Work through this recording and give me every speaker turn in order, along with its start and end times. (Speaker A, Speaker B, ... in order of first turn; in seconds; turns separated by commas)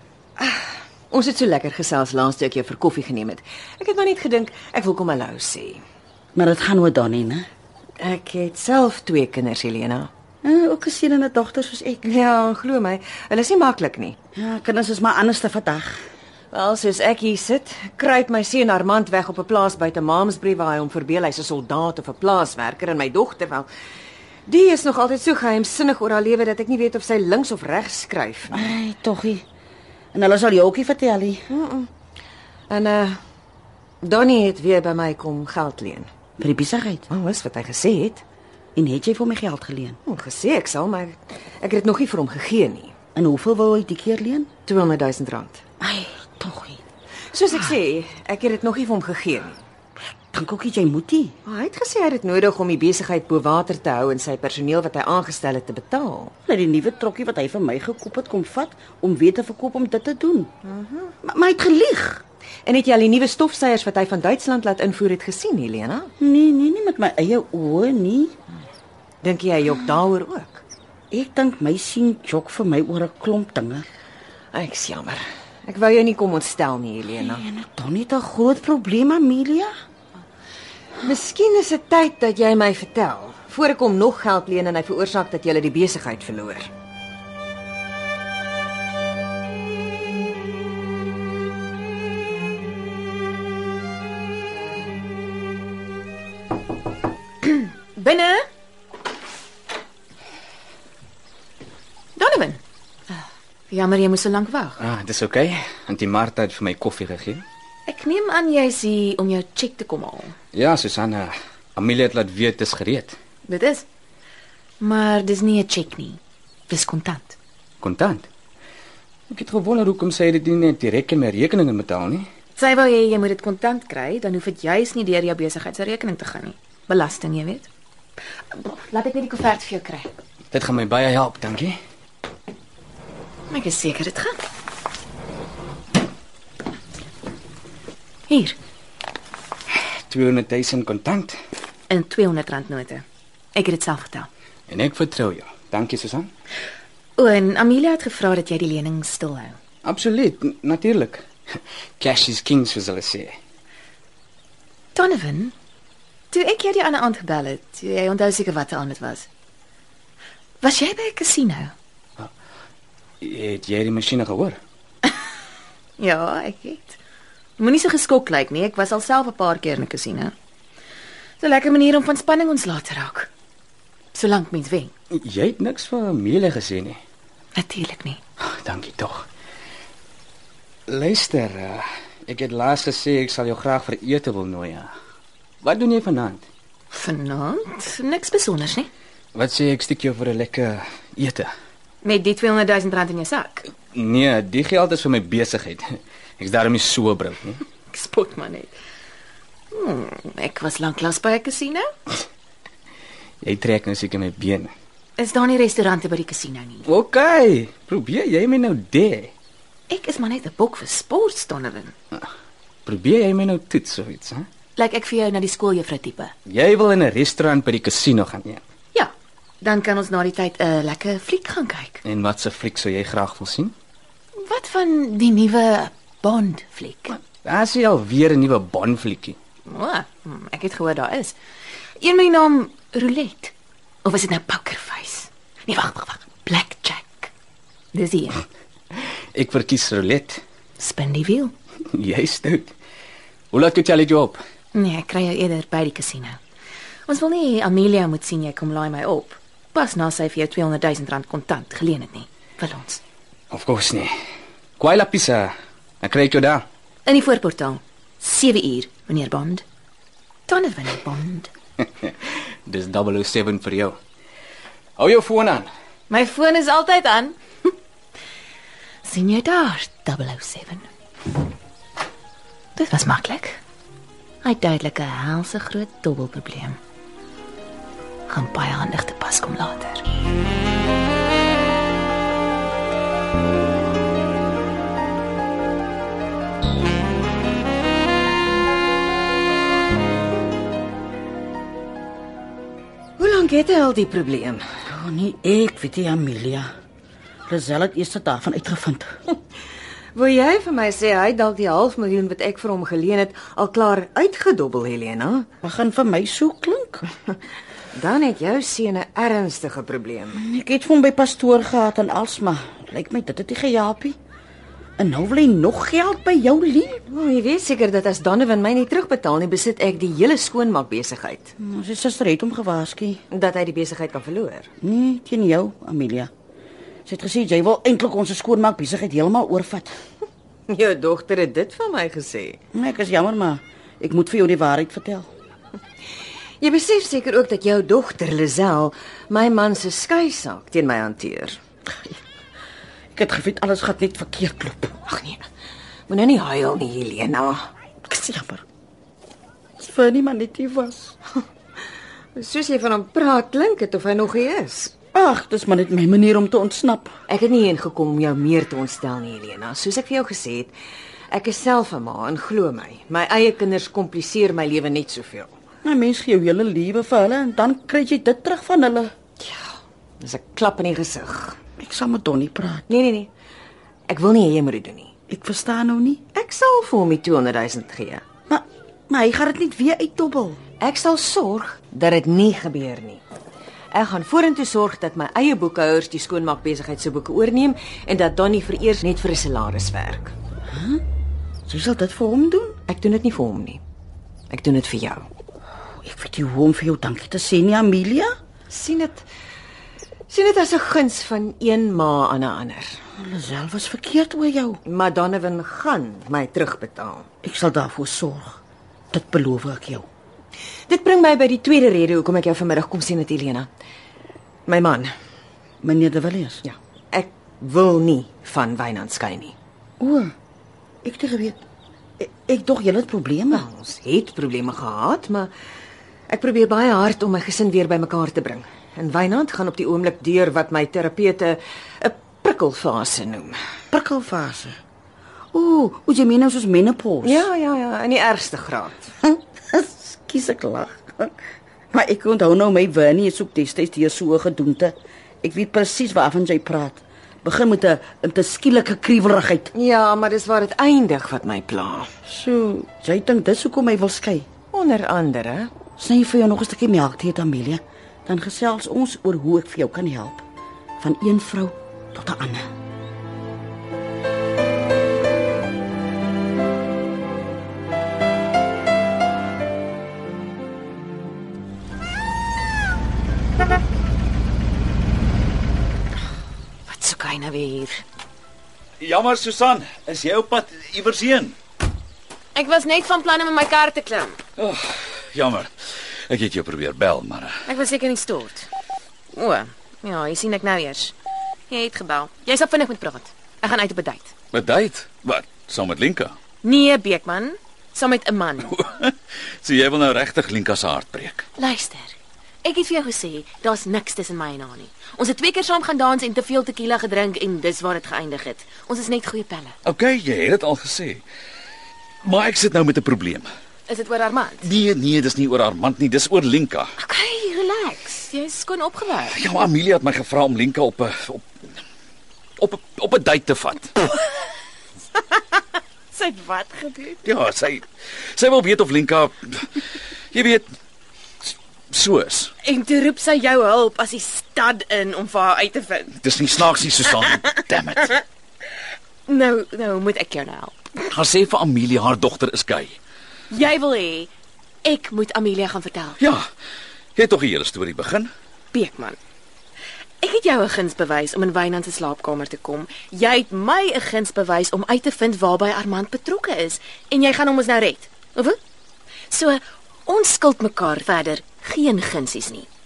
Speaker A: 0.4-5.8, Speaker B: 6.3-7.5, Speaker A: 8.0-10.1, Speaker B: 10.4-12.0, Speaker A: 12.0-14.2, Speaker B: 14.3-16.0, Speaker A: 16.5-23.7, Speaker A: 24.5-28.7, Speaker B: 28.5-29.4, Speaker B: 30.1-31.4, Speaker A: 31.5-31.9, Speaker A: 32.7-33.2, Speaker A: 34.0-36.1, Speaker B: 36.4-37.0, Speaker A: 37.1-38.2, Speaker B: 38.7-40.0, Speaker A: 40.0-42.9, Speaker B: 43.1-44.5, Speaker A: 44.6-45.6, Speaker B: 45.8-46.8, Speaker A: 47.3-49.6, Speaker B: 50.3-51.4, Speaker A: 51.4-56.3, Speaker B: 56.5-60.5, Speaker A: 60.6-61.1, Speaker B: 61.2-62.2, Speaker A: 62.6-66.1, Speaker B: 66.2-68.3, Speaker A: 69.2-70.6, Speaker B: 71.1-73.8, Speaker A: 74.5-77.4, Speaker B: 77.2-79.7, Speaker A: 81.0-86.7, Speaker C: 97.4-98.4, Speaker C: 102.2-102.6, Speaker C: 103.1-104.8, Speaker D: 104.8-107.4, Speaker C: 107.8-110.3, Speaker D: 110.5-113.2, Speaker C: 113.5-113.8, Speaker C: 114.8-117.4, Speaker D: 117.8-118.3, Speaker D: 119.3-122.3, Speaker C: 122.5-127.7, Speaker C: 128.5-130.1, Speaker D: 130.5-131.8, Speaker C: 133.5-134.4, Speaker C: 138.3-138.6, Speaker D: 139.9-141.4, Speaker C: 141.9-144.3, Speaker D: 144.7-146.3, Speaker C: 147.2-149.6, Speaker D: 149.8-151.2, Speaker D: 152.0-153.3, Speaker C: 154.9-155.5, Speaker C: 156.3-159.3, Speaker C: 160.6-161.7, Speaker D: 163.2-164.6, Speaker C: 166.0-167.0, Speaker C: 167.6-170.3, Speaker C: 171.4-173.3, Speaker C: 174.1-174.9, Speaker D: 175.2-177.0, Speaker C: 177.6-178.2, Speaker D: 178.4-179.2, Speaker D: 180.9-184.9, Speaker D: 185.6-186.4, Speaker C: 186.9-188.9, Speaker D: 189.3-191.5, Speaker C: 192.0-193.6, Speaker D: 193.9-197.6, Speaker C: 197.9-198.7, Speaker C: 199.7-201.9, Speaker D: 203.4-204.7, Speaker C: 205.2-206.8, Speaker D: 206.9-209.3, Speaker C: 209.9-211.9, Speaker D: 212.8-214.5, Speaker C: 214.8-216.3, Speaker D: 216.4-218.6, Speaker C: 219.6-222.0, Speaker D: 222.0-223.7, Speaker C: 224.4-227.2, Speaker D: 227.4-229.4, Speaker C: 229.7-231.3, Speaker C: 232.0-233.5, Speaker C: 234.0-237.3, Speaker C: 237.9-238.4, Speaker D: 239.3-240.4, Speaker C: 240.8-241.5, Speaker D: 241.9-242.7, Speaker D: 243.5-244.4, Speaker C: 244.7-246.4, Speaker C: 247.1-253.0, Speaker D: 253.5-254.1, Speaker D: 254.8-256.6, Speaker C: 257.1-259.6, Speaker C: 260.5-261.5, Speaker D: 262.6-264.0, Speaker D: 265.0-265.7, Speaker C: 266.1-267.4, Speaker C: 269.0-270.8, Speaker C: 272.8-273.6, Speaker C: 274.4-276.8, Speaker C: 278.3-280.0, Speaker A: 293.2-294.6, Speaker B: 294.9-296.7, Speaker B: 297.5-299.1, Speaker A: 300.1-305.5, Speaker B: 305.6-307.0, Speaker A: 307.9-310.4, Speaker B: 310.3-314.2, Speaker B: 315.0-317.0, Speaker A: 317.1-321.5, Speaker B: 321.6-323.2, Speaker A: 323.3-324.7, Speaker B: 324.8-326.3, Speaker B: 327.1-329.9, Speaker A: 330.7-332.6, Speaker B: 332.7-335.3, Speaker A: 336.6-341.6, Speaker B: 343.1-344.9, Speaker A: 345.1-345.4, Speaker A: 346.1-347.7, Speaker B: 348.1-348.6, Speaker B: 349.8-351.1, Speaker A: 352.3-354.9, Speaker B: 355.1-357.1, Speaker A: 357.3-360.7, Speaker A: 361.3-365.5, Speaker B: 365.8-369.1, Speaker A: 369.4-371.6, Speaker B: 371.8-372.9, Speaker A: 372.9-373.3, Speaker A: 374.1-375.1, Speaker B: 375.3-376.2, Speaker A: 376.3-378.2, Speaker B: 378.5-380.6, Speaker A: 380.8-383.2, Speaker A: 383.9-390.3, Speaker B: 390.7-391.0, Speaker B: 391.7-392.8, Speaker A: 392.9-393.8, Speaker A: 394.5-395.3, Speaker B: 396.0-398.3, Speaker A: 398.7-399.2, Speaker A: 400.3-402.9, Speaker B: 403.2-404.8, Speaker A: 404.8-407.2, Speaker B: 407.4-408.6, Speaker B: 409.1-410.1, Speaker A: 410.9-413.7, Speaker A: 414.7-415.1, Speaker B: 415.8-416.6, Speaker A: 416.6-419.5, Speaker B: 420.0-420.3, Speaker B: 421.0-421.6, Speaker B: 422.2-423.6, Speaker A: 423.5-425.5, Speaker A: 426.3-433.6, Speaker B: 433.9-434.8, Speaker B: 435.5-437.5, Speaker A: 437.2-439.1, Speaker B: 439.2-441.3, Speaker B: 441.9-449.7, Speaker A: 449.7-452.1, Speaker B: 452.3-454.5, Speaker A: 454.7-455.7, Speaker B: 456.0-460.4, Speaker B: 461.0-462.7, Speaker C: 476.9-478.0, Speaker E: 479.0-481.5, Speaker C: 482.5-484.4, Speaker E: 484.6-485.7, Speaker E: 486.3-487.6, Speaker C: 487.6-488.7, Speaker C: 489.3-491.1, Speaker C: 491.7-494.3, Speaker E: 494.5-496.3, Speaker C: 496.6-498.7, Speaker E: 498.8-499.1, Speaker E: 499.6-501.4, Speaker C: 501.6-509.8, Speaker E: 509.8-511.2, Speaker E: 512.2-513.5, Speaker C: 513.9-514.7, Speaker E: 514.6-516.9, Speaker C: 517.0-519.4, Speaker E: 519.3-521.5, Speaker E: 522.6-523.9, Speaker C: 526.1-527.2, Speaker E: 527.2-529.7, Speaker E: 530.3-530.7, Speaker E: 531.9-532.5, Speaker C: 532.6-536.1, Speaker E: 536.2-538.1, Speaker C: 539.3-540.8, Speaker E: 541.1-543.0, Speaker C: 543.5-544.3, Speaker C: 544.8-546.2, Speaker E: 546.2-546.5, Speaker E: 547.1-548.3, Speaker C: 548.7-549.2, Speaker C: 550.2-558.6, Speaker C: 559.3-562.7